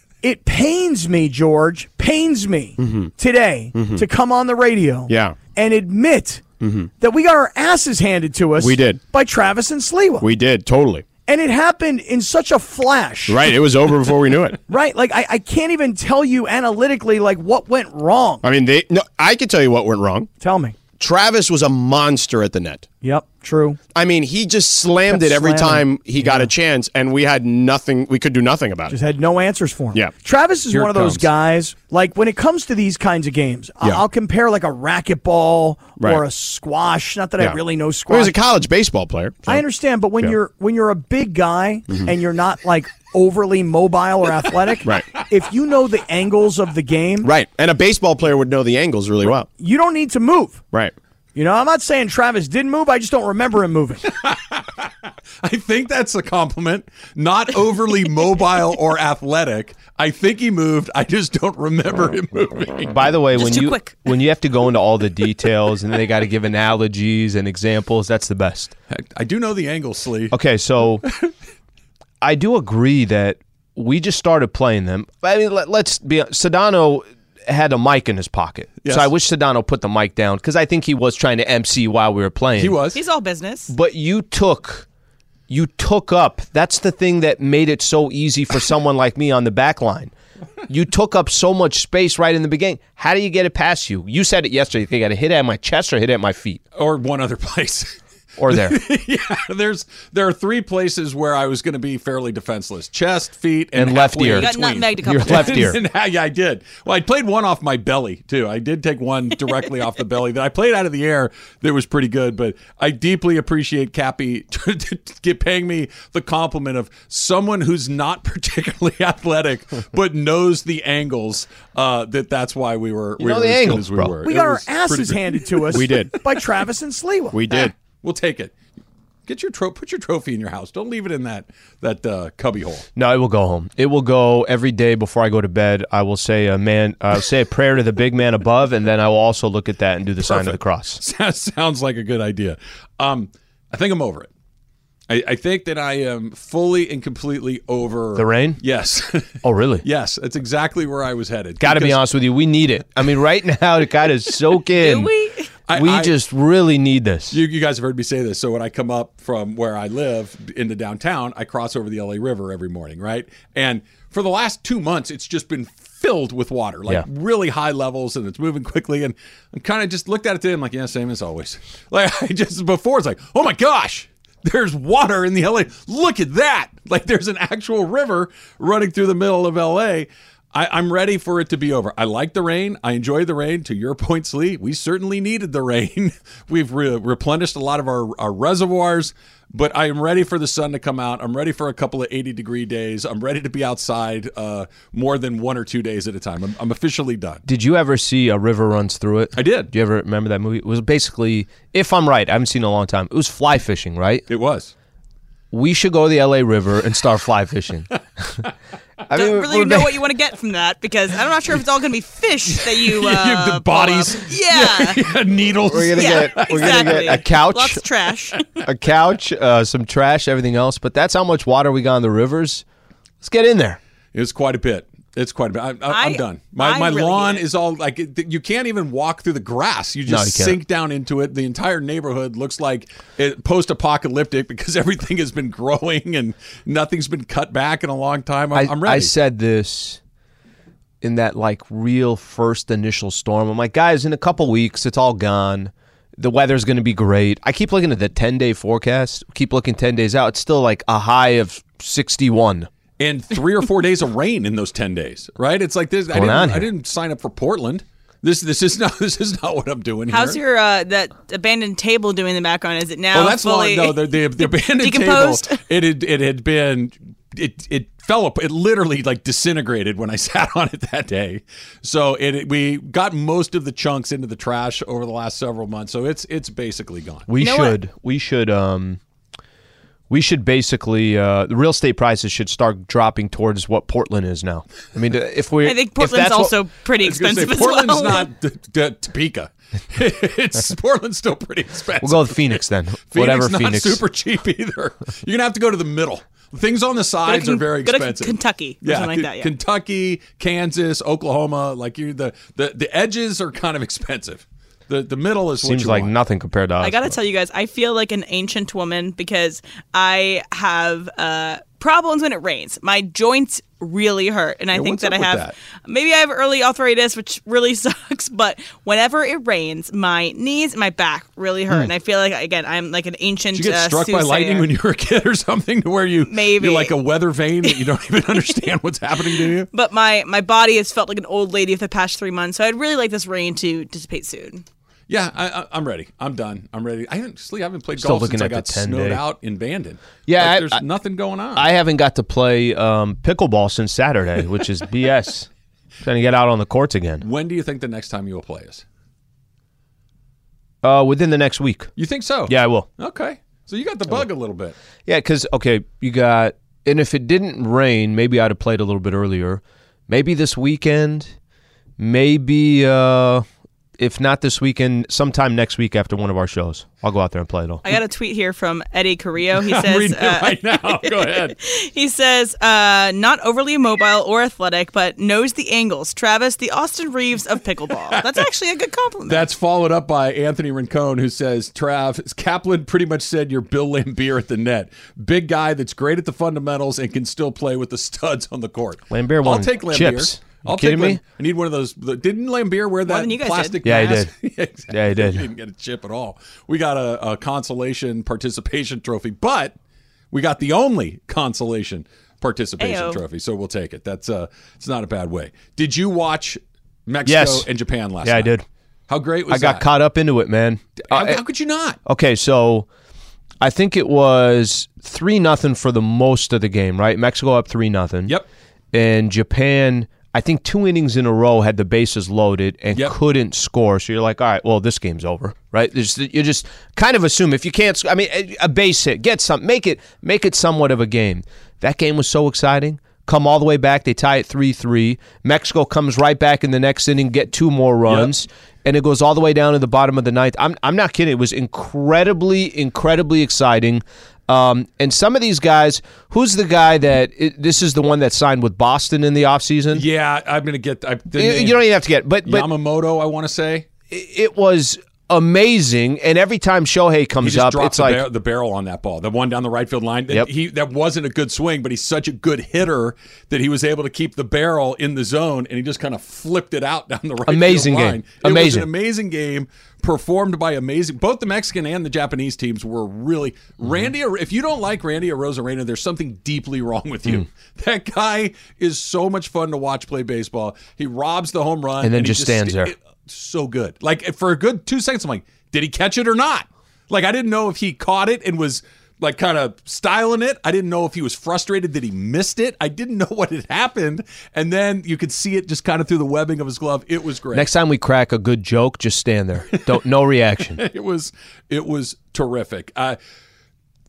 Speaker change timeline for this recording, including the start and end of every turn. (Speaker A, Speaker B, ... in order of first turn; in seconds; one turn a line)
Speaker A: 0.2-10.3
Speaker B: 2.8-3.1
Speaker B: 3.7-4.0
Speaker B: 5.1-5.4
Speaker B: 6.6-6.9
Speaker B: 8.6-9.0
Speaker B: 10.2-11.1
Speaker A: 11.2-13.5
Speaker B: 13.3-14.6
Speaker A: 14.7-18.4
Speaker B: 18.4-20.3
Speaker A: 20.4-20.8
Speaker B: 21.0-22.9
Speaker A: 23.0-23.8
Speaker B: 23.9-28.9
Speaker A: 25.1-26.5
Speaker A: 28.9-38.4
Speaker C: 30.7-31.2
Speaker B: 36.0-36.2
Speaker B: 37.4-39.6
Speaker A: 39.4-47.3
Speaker B: 44.8-45.2
Speaker B: 47.2-49.5
Speaker A: 49.6-50.6
Speaker A: 51.3-54.0
Speaker C: 54.2-54.9
Speaker C: 55.4-63.0
Speaker D: 62.9-68.7
Speaker E: 63.3-64.0
Speaker C: 68.9-70.3
Speaker D: 70.3-71.0
Speaker D: 72.2-82.8
Speaker C: 78.8-79.1
Speaker C: 82.5-83.0
Speaker E: 82.9-83.7
Speaker D: 83.7-84.8
Speaker D: 85.5-90.1
Speaker D: 90.7-96.6
Speaker C: 96.8-97.9
Speaker D: 98.4-98.8
Speaker C: 98.5-125.9
Speaker D: 103.7-105.8
Speaker E: 104.3-105.7
Speaker D: 123.2-124.2
Speaker A: 124.2-127.4
Speaker B: 125.7-126.2
Speaker B: 127.3-127.7
Speaker C: 127.5-128.5
Speaker C: 129.2-132.8
Speaker D: 132.9-141.0
Speaker C: 140.2-144.3
Speaker C: 145.1-152.0
Speaker D: 148.1-148.6
Speaker D: 149.4-149.8
Speaker D: 151.6-155.1
Speaker E: 154.8-155.5
Speaker C: 155.7-156.1
Speaker D: 155.7-157.4
Speaker C: 157.3-197.4
Speaker D: 197.4-204.3
Speaker C: 199.3-199.7
Speaker C: 204.3-204.7
Speaker D: 205.5-208.5
Speaker D: 209.1-210.0
Speaker E: 209.1-215.0
Speaker C: 212.6-217.2
Speaker D: 215.7-217.8
Speaker E: 216.0-218.5
Speaker D: 218.6-222.6
Speaker D: 223.2-223.8
Speaker C: 224.1-239.1
Speaker E: 225.9-227.4
Speaker D: 230.1-230.6
Speaker D: 238.5-240.0
Speaker D: 241.0-252.7
Speaker C: 253.0-260.4
Speaker D: 256.1-256.7
Speaker E: 260.1-265.6
Speaker C: 263.1-277.3
Speaker D: 277.3-279.0
Speaker E: 277.4-277.8
Speaker D: 280.1-286.6
Speaker E: 285.6-288.3
Speaker C: 287.0-292.6
Speaker D: 292.0-294.0
Speaker C: 293.1-306.1
Speaker E: 297.2-299.5
Speaker D: 305.6-307.1
Speaker E: 306.8-324.7
Speaker C: 314.7-315.5
Speaker C: 323.5-329.7
Speaker E: 326.3-326.9
Speaker E: 327.6-328.6
Speaker E: 329.3-334.6
Speaker C: 335.1-341.7
Speaker D: 337.9-339.2
Speaker D: 340.2-340.8
Speaker D: 341.6-345.5
Speaker D: 346.0-347.2
Speaker C: 347.2-348.8
Speaker D: 350.8-351.9
Speaker C: 351.9-354.7
Speaker D: 352.5-352.9
Speaker D: 355.1-361.3
Speaker D: 362.0-363.4
Speaker D: 364.0-367.8
Speaker E: 367.8-379.4
Speaker C: 369.6-371.6
Speaker C: 379.3-399.8
Speaker D: 389.1-391.2
Speaker E: 393.1-393.8
Speaker D: 393.8-394.3
Speaker D: 394.9-395.5
Speaker C: 400.3-408.5
Speaker E: 402.8-403.2
Speaker D: 407.2-407.7
Speaker D: 408.2-408.6
Speaker C: 409.1-409.9
Speaker D: 409.5-411.4
Speaker C: 411.0-412.0
Speaker D: 412.0-412.9
Speaker D: 413.6-418.4
Speaker D: 418.9-450.0
Speaker C: 438.1-438.3
Speaker C: 449.9-451.8
Speaker D: 451.4-452.7
Speaker C: 452.4-453.9
Speaker D: 454.1-458.2
Speaker C: 457.4-497.7
Speaker D: 467.5-468.9
Speaker D: 473.8-474.1
Speaker D: 482.0-482.9
Speaker D: 497.5-500.8
Speaker C: 500.7-503.2